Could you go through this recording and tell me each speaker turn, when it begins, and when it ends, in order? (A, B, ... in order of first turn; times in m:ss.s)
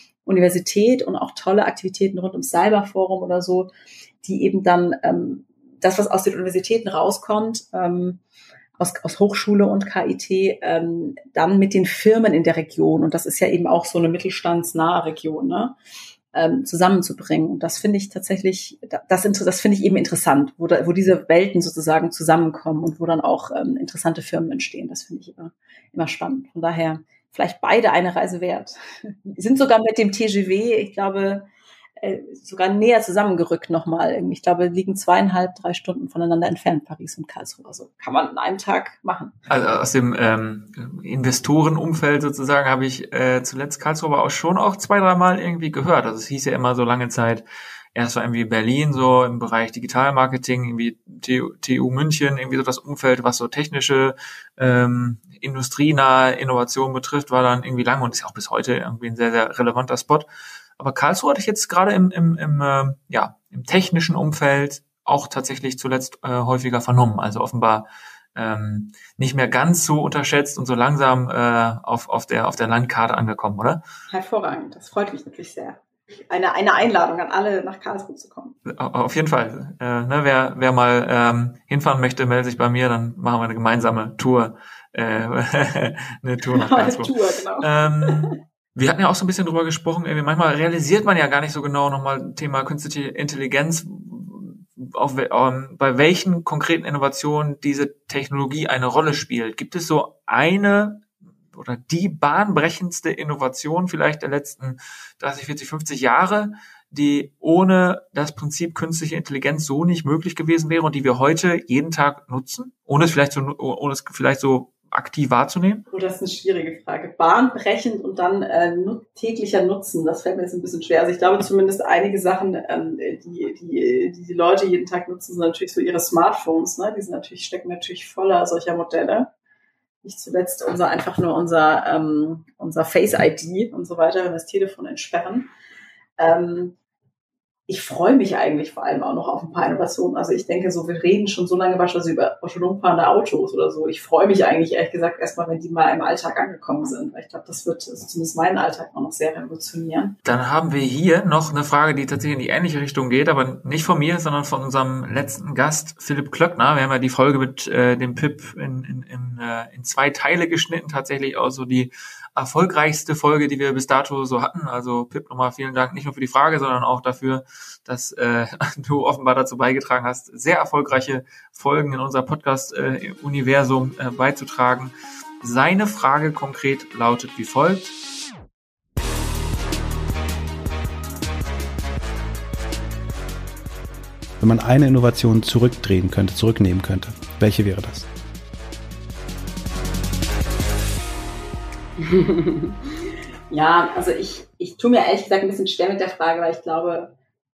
0:00.3-0:03.7 A
0:04.2-0:08.2 A
0:08.8-0:15.8 A
0:16.3-0:31.5 A
0:32.0-0:39.4 A
0:39.5-1:00.3 B
1:00.8-1:13.8 B
1:14.1-1:18.6 A
1:18.7-1:55.9 B
1:26.5-1:28.2 A
1:55.9-2:09.3 A
2:10.0-2:15.5 A
2:16.2-2:16.8 A
2:17.7-2:30.2 A
2:30.2-2:57.9 B
3:04.4-3:08.1 C
3:12.0-3:12.8 A
3:13.5-3:17.1 A